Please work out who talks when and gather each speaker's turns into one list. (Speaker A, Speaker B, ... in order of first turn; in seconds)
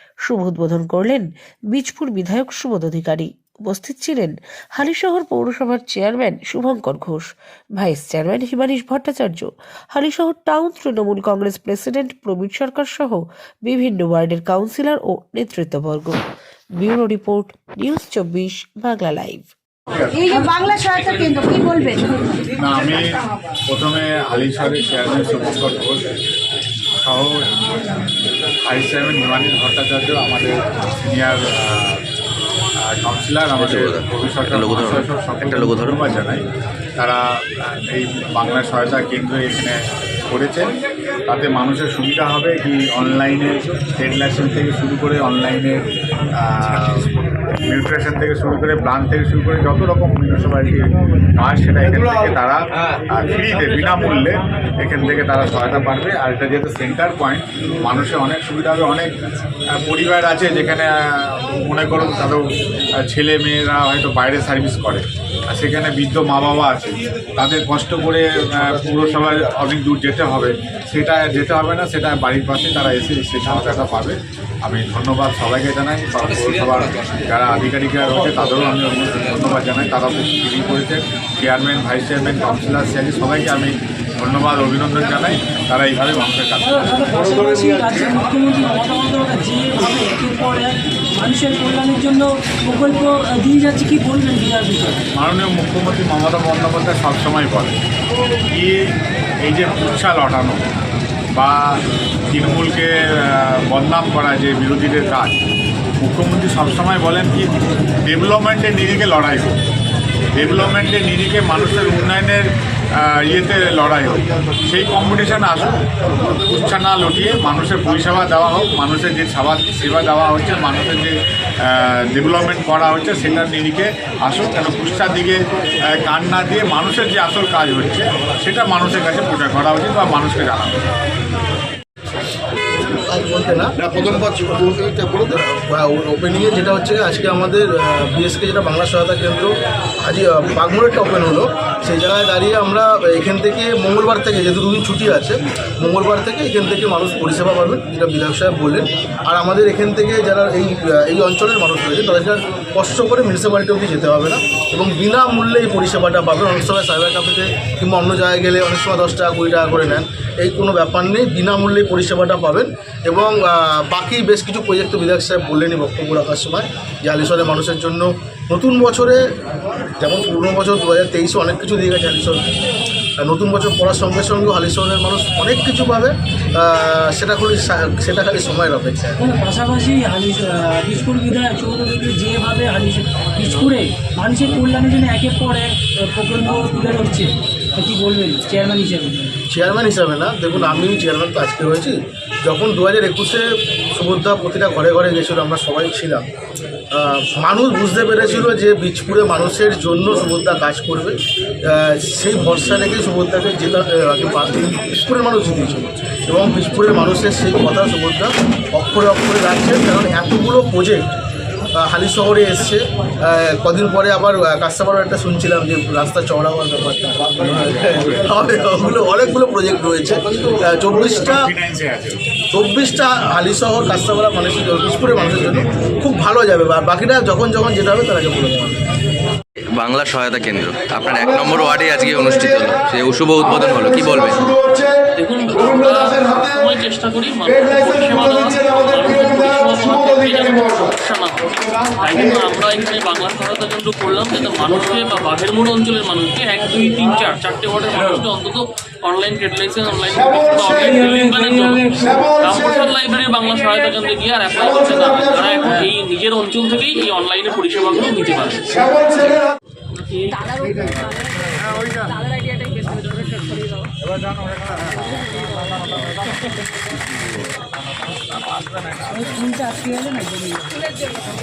Speaker A: 0.2-16.2, 16.8-19.5
Speaker B: 20.1-22.5
Speaker C: 22.6-26.1, 27.0-27.4, 28.6-32.0, 32.8-36.4, 37.0-39.8, 40.3-40.7, 41.3-45.8, 46.4-47.1, 47.6-50.8, 51.4-59.1, 59.7-62.4, 63.0-87.0, 95.1-97.8, 98.5-98.8, 99.4-100.6, 101.3-101.8, 102.3-105.3, 106.0-109.6, 110.3-115.8, 116.4-130.8, 217.8-218.2, 221.2-222.2, 264.0-269.5
Speaker D: 33.5-36.1, 229.7-234.6
Speaker E: 86.6-95.0, 179.2-189.3, 269.1-270.7
Speaker F: 133.1-169.2, 170.0-172.4, 173.2-179.2, 189.5-196.2, 196.9-201.1, 201.7-211.2, 211.8-221.4, 222.5-228.8
Speaker G: 235.2-259.4, 260.0-260.7